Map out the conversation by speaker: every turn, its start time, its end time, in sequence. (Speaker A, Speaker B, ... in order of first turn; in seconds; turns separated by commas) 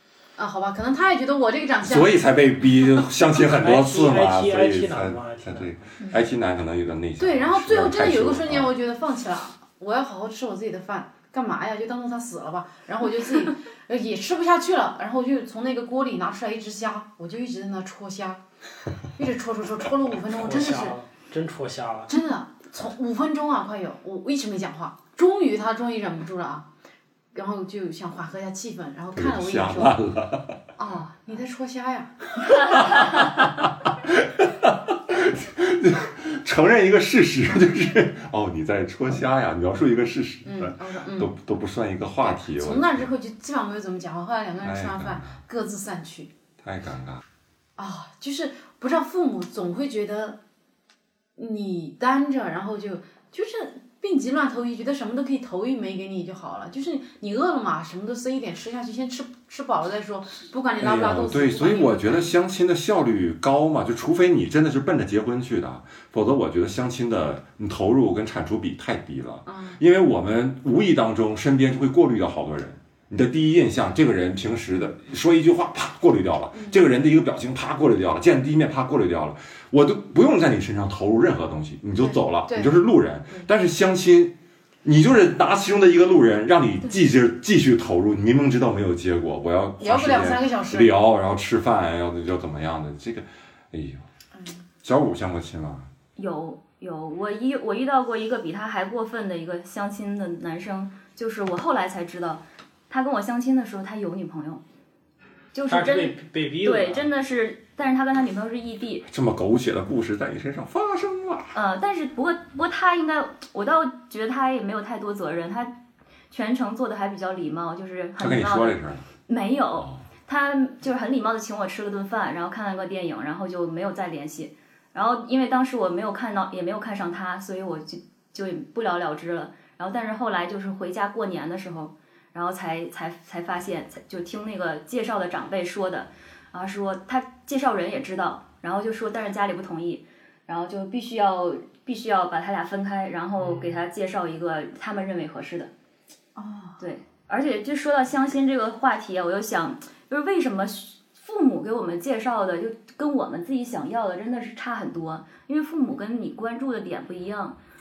Speaker A: 0.4-2.1, Speaker B: 1.8-8.8, Speaker C: 3.6-5.8, Speaker A: 7.2-18.4, Speaker A: 19.1-21.0, Speaker C: 20.2-22.1, Speaker A: 22.1-26.7, Speaker A: 27.3-30.0, Speaker B: 29.1-30.6, Speaker A: 30.8-32.1, Speaker B: 32.5-43.1, Speaker A: 40.5-41.3, Speaker A: 42.2-46.3, Speaker B: 44.6-45.4, Speaker B: 46.6-47.2, Speaker A: 47.8-50.4, Speaker A: 51.4-62.3, Speaker B: 60.8-94.0, Speaker A: 69.5-69.8, Speaker A: 76.5-76.9, Speaker A: 82.0-83.5, Speaker A: 89.8-90.9, Speaker A: 94.3-94.6, Speaker B: 94.8-95.9, Speaker D: 96.2-104.6, Speaker D: 105.5-109.1, Speaker C: 105.7-107.1, Speaker B: 109.1-111.5, Speaker D: 111.5-115.7, Speaker D: 116.3-145.7, Speaker B: 118.2-119.0, Speaker C: 143.4-143.8, Speaker A: 146.4-146.8, Speaker D: 146.8-157.6